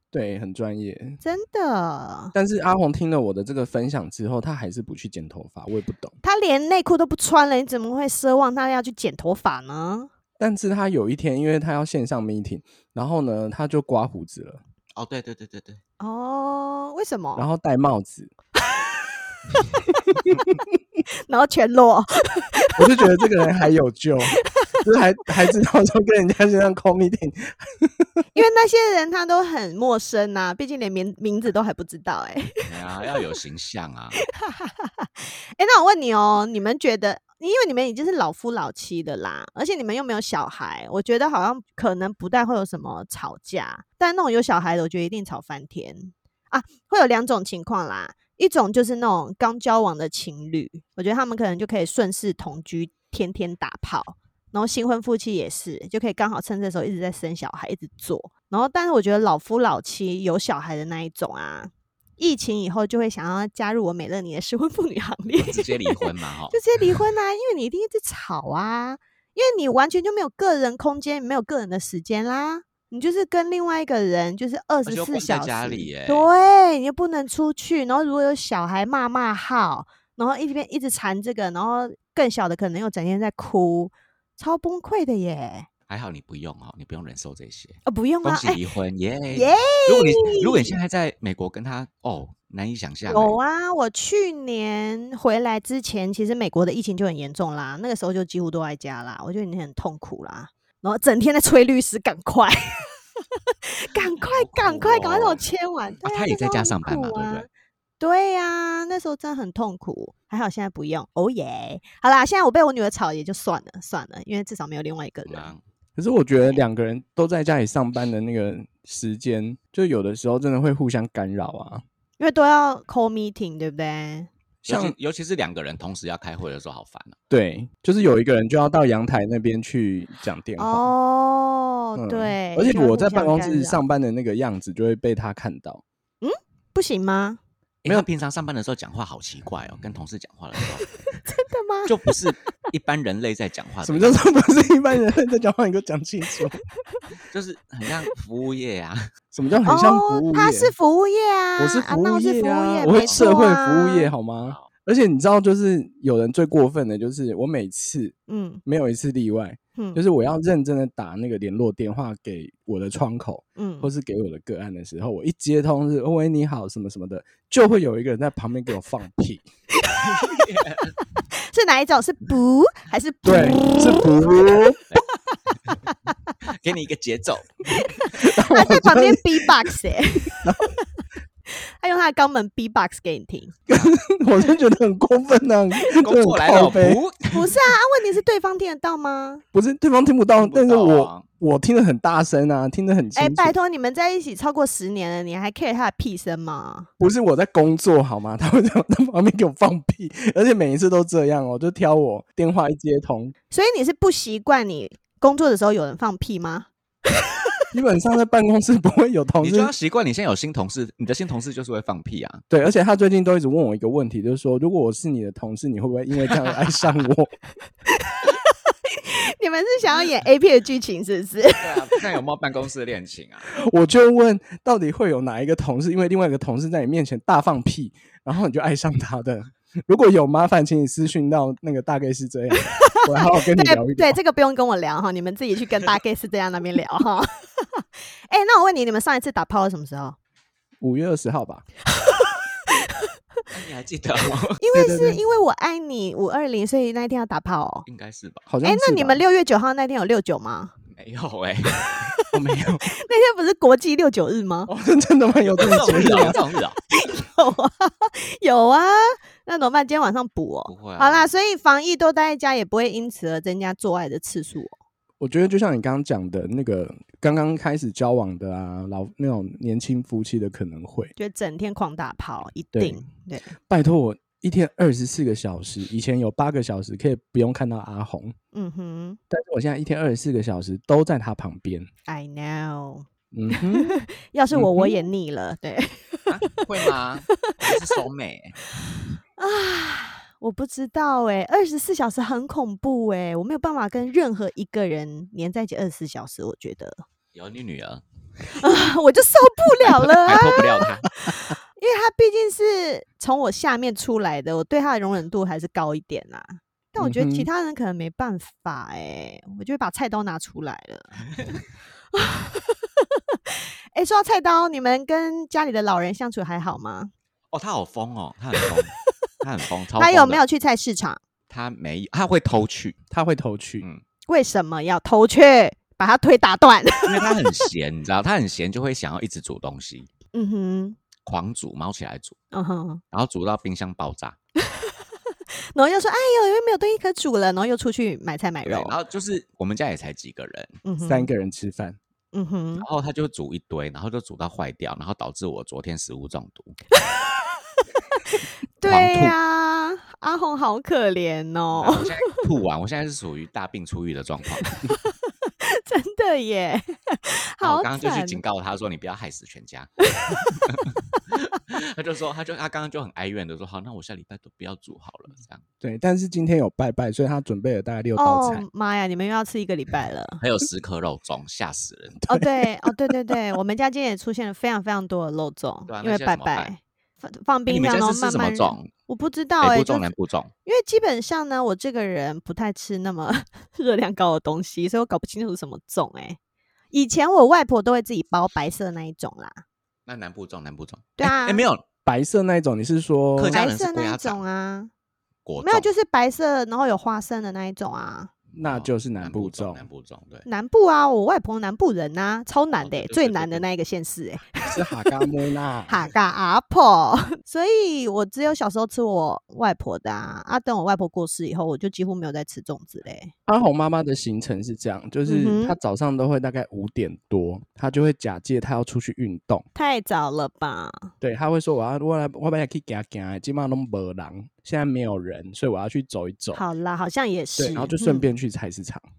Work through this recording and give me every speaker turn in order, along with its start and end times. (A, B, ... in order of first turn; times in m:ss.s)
0:00.1-0:01.2 A
0:01.2-0:02.3 B
0:02.3-0:06.2 A
0:06.2-0:10.1 B
0:10.4-0:14.6 A
0:15.0-0:15.8 C
0:16.0-0:17.4 B
0:17.4-0:18.3 A
0:19.5-0:20.6 B
0:21.3-0:23.1 B
0:22.8-0:28.1 A
0:24.3-0:24.8 B
0:28.3-0:32.6 B
0:32.6-0:34.2 C
0:34.2-1:25.7 B
1:05.4-1:07.0 C
1:14.8-1:16.3 C
1:25.9-1:33.4 C
1:27.9-1:28.6 B
1:29.3-1:30.8 B
1:33.1-1:43.0 B
1:43.5-1:47.5 B
1:44.2-1:45.4 C
1:46.0-1:47.5 C
1:48.0-1:55.5 B
1:55.3-1:55.6 C
1:56.0-2:01.8 A
2:02.2-2:04.3 B
2:04.6-2:04.9 A
2:04.7-2:07.2 C
2:07.3-2:10.9 A
2:10.6-2:13.8 B
2:12.0-2:15.8 A
2:16.2-2:17.4 B
2:17.8-2:20.9 C
2:20.8-2:22.1 B
2:21.9-2:24.2 C
2:23.8-2:26.6 A
2:27.3-2:29.1 C
2:29.3-2:30.7 A
2:29.7-2:34.1 B
2:31.6-2:49.4 A
2:32.8-2:33.2 C
2:38.3-2:38.6 B
2:43.6-2:43.9 B
2:49.8-2:50.5 B
2:50.0-2:51.0 C
2:51.2-2:54.2 B
2:53.2-2:54.8 A
2:56.4-2:57.7 C
2:57.7-3:00.8 B
2:58.2-2:59.5 A
3:00.4-3:00.7 A
3:01.5-3:03.6 B
3:03.7-3:07.0 A
3:05.9-3:07.5 C
3:07.3-3:09.4 B
3:09.5-3:13.6 A
3:10.4-3:11.3 C
3:13.2-3:16.9 B
3:17.0-3:23.4 A
3:23.5-3:27.3 B
3:27.7-3:29.7 A
3:29.4-3:32.4 C
3:32.5-3:37.3 A
3:36.3-3:36.6 C
3:38.0-3:42.0 B
3:41.6-3:43.5 C
3:43.5-3:54.2 A
3:52.8-4:00.2 B
4:00.8-4:01.7 A
4:02.0-4:03.1 B
4:03.5-4:04.6 C
4:04.6-4:07.9 B
4:04.7-4:05.2 A
4:07.9-4:08.5 C
4:08.5-4:09.2 A
4:08.6-4:10.7 B
4:10.9-4:12.1 C
4:11.9-4:12.3 B
4:12.3-4:12.9 A
4:12.9-4:14.7 B
4:14.7-4:16.4 A
4:15.6-4:16.8 C
4:16.9-4:24.8 B
4:20.7-4:21.3 C
4:25.2-4:31.1 A
4:31.2-4:33.5 B
4:32.8-4:33.0 A
4:33.7-4:38.4 A
4:38.5-4:39.2 B
4:39.3-4:41.9 A
4:42.1-4:47.9 B
4:43.3-4:45.1 A
4:46.3-4:48.6 C
4:49.4-4:57.0 B
4:57.3-4:58.0 C
4:58.5-5:11.2 B
4:59.8-5:01.1 C
5:07.0-5:07.5 A
5:12.1-5:17.1 B
5:17.5-5:20.4 C
5:20.0-5:21.2 B
5:21.5-5:23.0 C
5:23.1-5:23.8 A
5:24.3-5:27.6 B
5:27.0-5:30.1 C
5:30.3-5:31.0 B
5:31.2-5:32.4 C
5:32.5-5:33.0 B
5:33.1-5:34.4 C
5:34.6-5:35.0 B
5:35.7-5:39.0 B
5:38.6-5:40.8 C
5:40.8-5:41.3 B
5:41.0-5:42.0 A
5:42.3-5:42.9 B
5:42.8-5:46.8 C
5:46.9-5:52.4 B
5:48.8-5:49.4 C
5:51.8-5:54.8 C
5:54.6-5:58.4 B
5:57.6-5:59.9 C
6:00.0-6:00.7 B
6:00.5-6:05.6 C
6:05.8-6:08.6 A
6:08.2-6:10.4 B
6:10.4-6:12.2 C
6:12.2-6:13.4 A
6:12.3-6:20.1 B
6:15.9-6:16.7 C
6:17.7-6:18.9 C
6:19.6-6:20.5 C
6:20.6-6:26.4 B
6:26.9-6:29.6 B
6:30.1-6:31.8 C
6:31.2-6:31.7 B
6:32.0-6:33.6 A
6:33.4-6:34.4 C
6:33.5-6:34.9 B
6:35.4-6:35.9 C
6:35.6-6:38.3 B
6:38.5-6:40.5 C
6:38.6-6:39.8 A
6:40.5-6:45.1 B
6:42.8-6:43.6 C
6:44.6-6:46.1 A
6:45.9-6:53.3 B
6:53.5-6:59.6 A
6:55.3-6:55.8 B
6:59.8-7:01.1 B
7:01.2-7:06.6 A
7:06.5-7:08.3 B
7:07.6-7:09.0 A